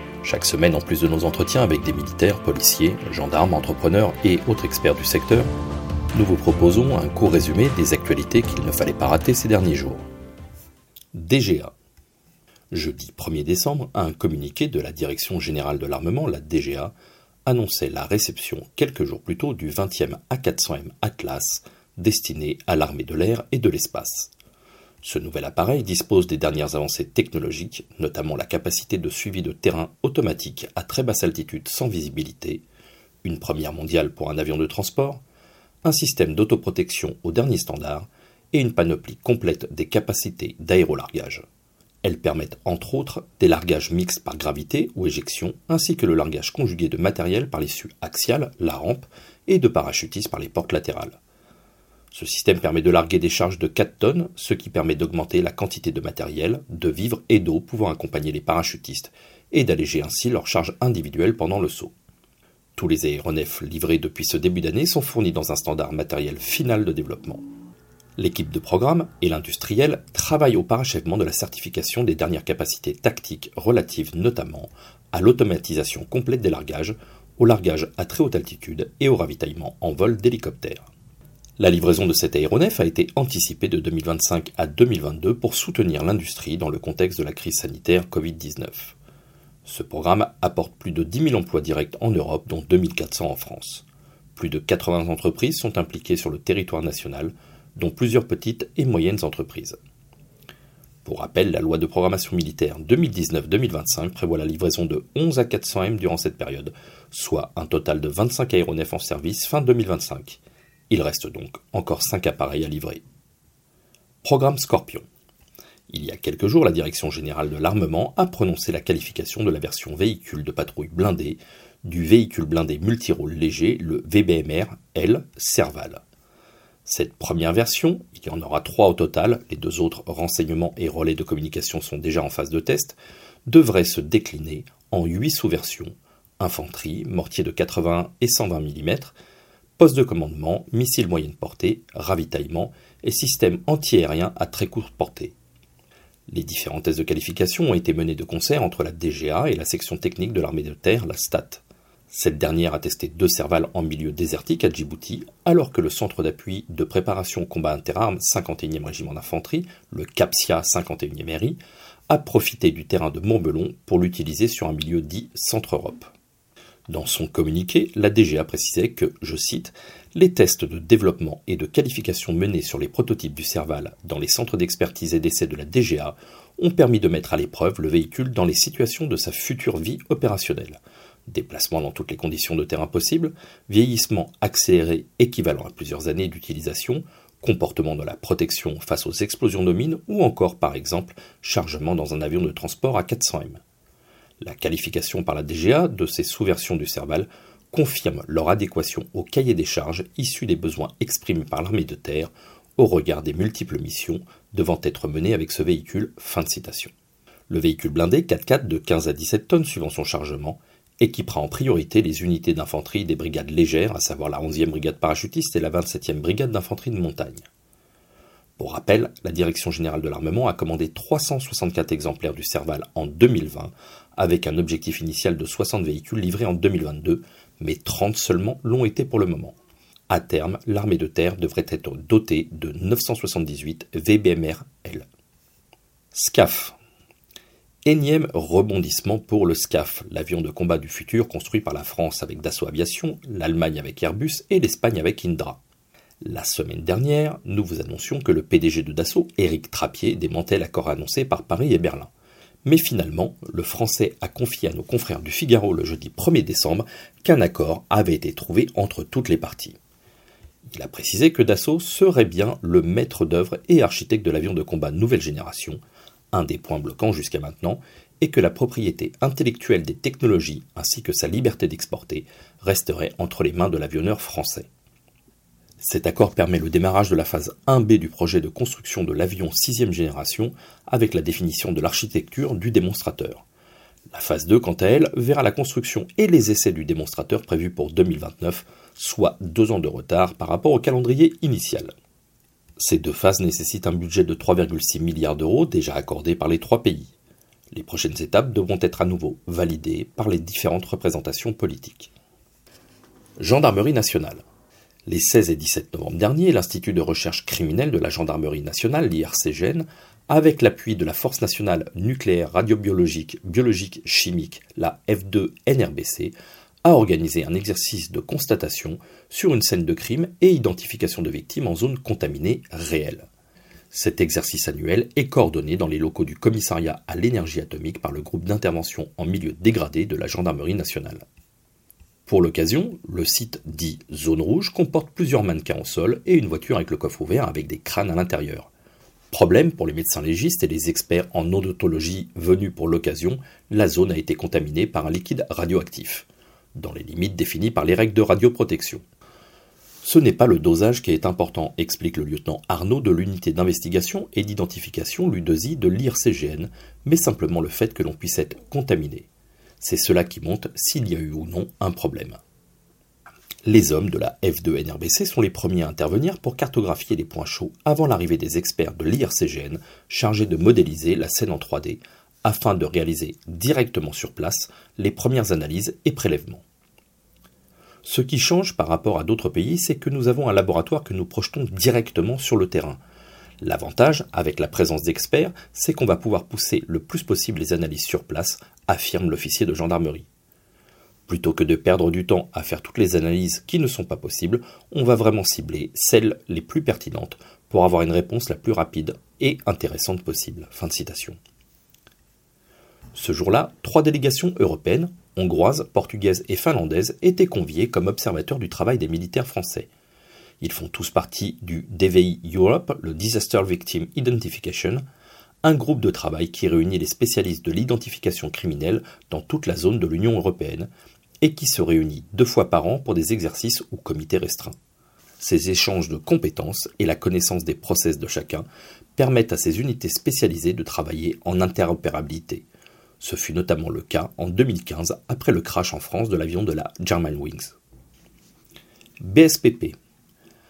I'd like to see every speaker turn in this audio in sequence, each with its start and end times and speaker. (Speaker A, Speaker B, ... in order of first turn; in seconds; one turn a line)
Speaker A: 0.2-5.5
Speaker A: 6.1-10.1
Speaker A: 11.1-11.7
Speaker A: 12.7-16.9
Speaker A: 17.5-24.3
Speaker A: 25.0-32.6
Speaker A: 33.2-35.2
Speaker A: 35.9-41.4
Speaker A: 42.0-51.2
Speaker A: 52.1-61.9
Speaker A: 62.8-67.4
Speaker A: 68.2-80.9
Speaker A: 81.6-89.0
Speaker A: 89.7-99.8
Speaker A: 101.0-113.0
Speaker A: 114.2-115.0
Speaker A: 115.9-126.0
Speaker A: 126.8-139.2
Speaker A: 139.8-145.3
Speaker A: 146.3-161.6
Speaker A: 162.1-166.1
Speaker A: 166.9-193.6
Speaker A: 194.4-206.9
Speaker A: 207.5-217.4
Speaker A: 218.6-229.6
Speaker A: 230.1-235.1
Speaker A: 236.1-236.8
Speaker A: 237.9-245.6
Speaker A: 246.2-252.1
Speaker A: 252.7-259.8
Speaker A: 260.7-265.8
Speaker A: 266.3-274.7
Speaker A: 275.8-283.4
Speaker A: 284.1-291.9
Speaker A: 292.8-297.1
Speaker A: 297.7-302.1
Speaker A: 303.4-304.4
Speaker A: 305.1-316.3
Speaker A: 316.9-323.3
Speaker A: 323.9-331.2
Speaker A: 332.3-338.7
Speaker A: 339.3-349.0
Speaker A: 350.0-359.3
Speaker A: 359.8-362.4
Speaker A: 363.6-376.6
Speaker A: 378.1-383.0
Speaker A: 383.6-390.3
Speaker A: 391.3-401.4
Speaker A: 403.1-409.9
Speaker A: 410.6-415.0
Speaker A: 415.6-420.9
Speaker A: 421.4-424.8
Speaker A: 425.4-432.6
Speaker A: 433.2-437.8
Speaker A: 439.2-439.9